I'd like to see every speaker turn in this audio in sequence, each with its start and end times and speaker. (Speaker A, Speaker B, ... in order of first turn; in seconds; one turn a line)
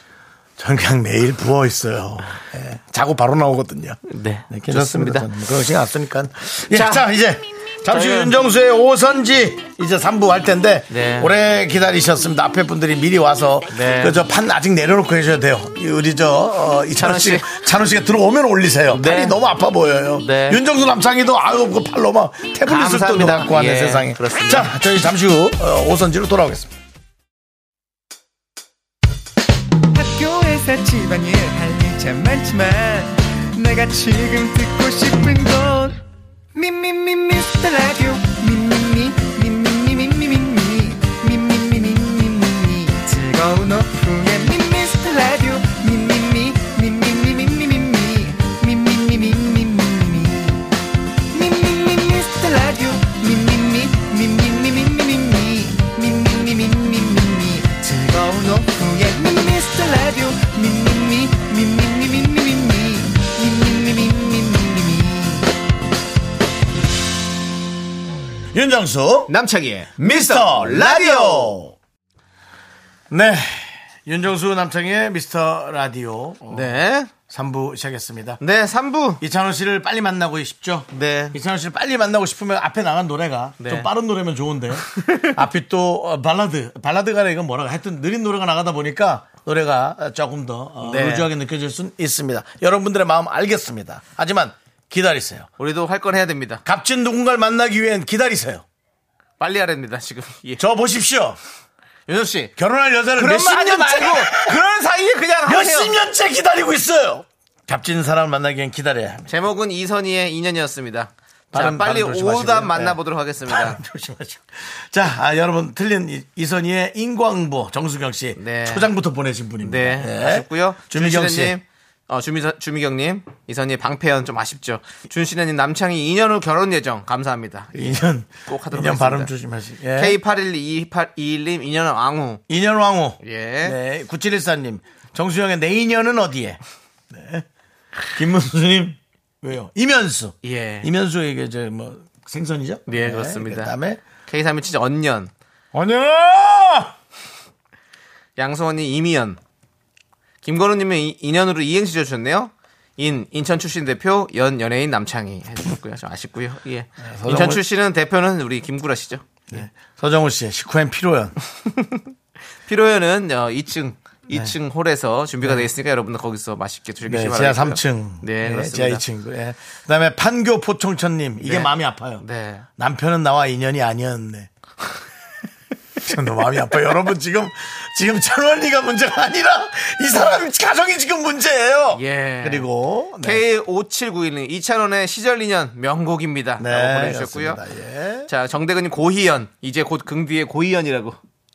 Speaker A: 0.6-4.0
Speaker B: 4.1-5.3
Speaker A: 4.5-26.7
Speaker B: 6.7-7.1
Speaker B: 7.9-8.3
Speaker B: 10.9-11.3
Speaker B: 13.7-14.2
Speaker B: 17.0-17.5
Speaker B: 18.9-19.4
Speaker B: 20.2-20.6
Speaker B: 22.6-24.7
Speaker C: 29.9-36.0
Speaker C: 36.5-50.7
Speaker C: 51.3-65.5
Speaker A: 68.5-69.3
Speaker B: 69.3-71.6
Speaker A: 70.0-71.7
Speaker A: 73.1-76.7
Speaker B: 76.5-77.1
Speaker A: 77.3-78.4
Speaker B: 78.4-79.2
Speaker A: 79.2-95.5
Speaker B: 80.9-81.3
Speaker B: 83.6-83.9
Speaker B: 84.9-85.3
Speaker B: 90.8-91.3
Speaker B: 95.6-96.6
Speaker A: 96.6-98.6
Speaker B: 99.4-100.6
Speaker A: 100.6-101.4
Speaker B: 102.1-102.5
Speaker A: 102.6-104.6
Speaker B: 103.2-105.9
Speaker A: 105.5-109.3
Speaker B: 109.3-113.8
Speaker A: 111.5-121.6
Speaker B: 118.4-118.9
Speaker B: 119.6-129.3
Speaker A: 127.7-130.2
Speaker B: 129.9-132.4
Speaker A: 132.5-136.6
Speaker B: 133.2-133.8
Speaker A: 137.1-137.4
Speaker A: 138.1-144.0
Speaker B: 140.4-140.9
Speaker B: 142.9-143.7
Speaker B: 144.2-145.3
Speaker A: 145.7-146.9
Speaker B: 148.4-149.4
Speaker B: 150.4-159.2
Speaker A: 157.1-157.6
Speaker A: 159.5-161.3
Speaker B: 162.7-169.0
Speaker A: 167.1-172.2
Speaker B: 171.4-172.6
Speaker A: 172.8-174.5
Speaker A: 176.0-183.4
Speaker B: 181.9-182.7
Speaker B: 183.2-187.6
Speaker A: 186.6-188.3
Speaker B: 188.3-191.2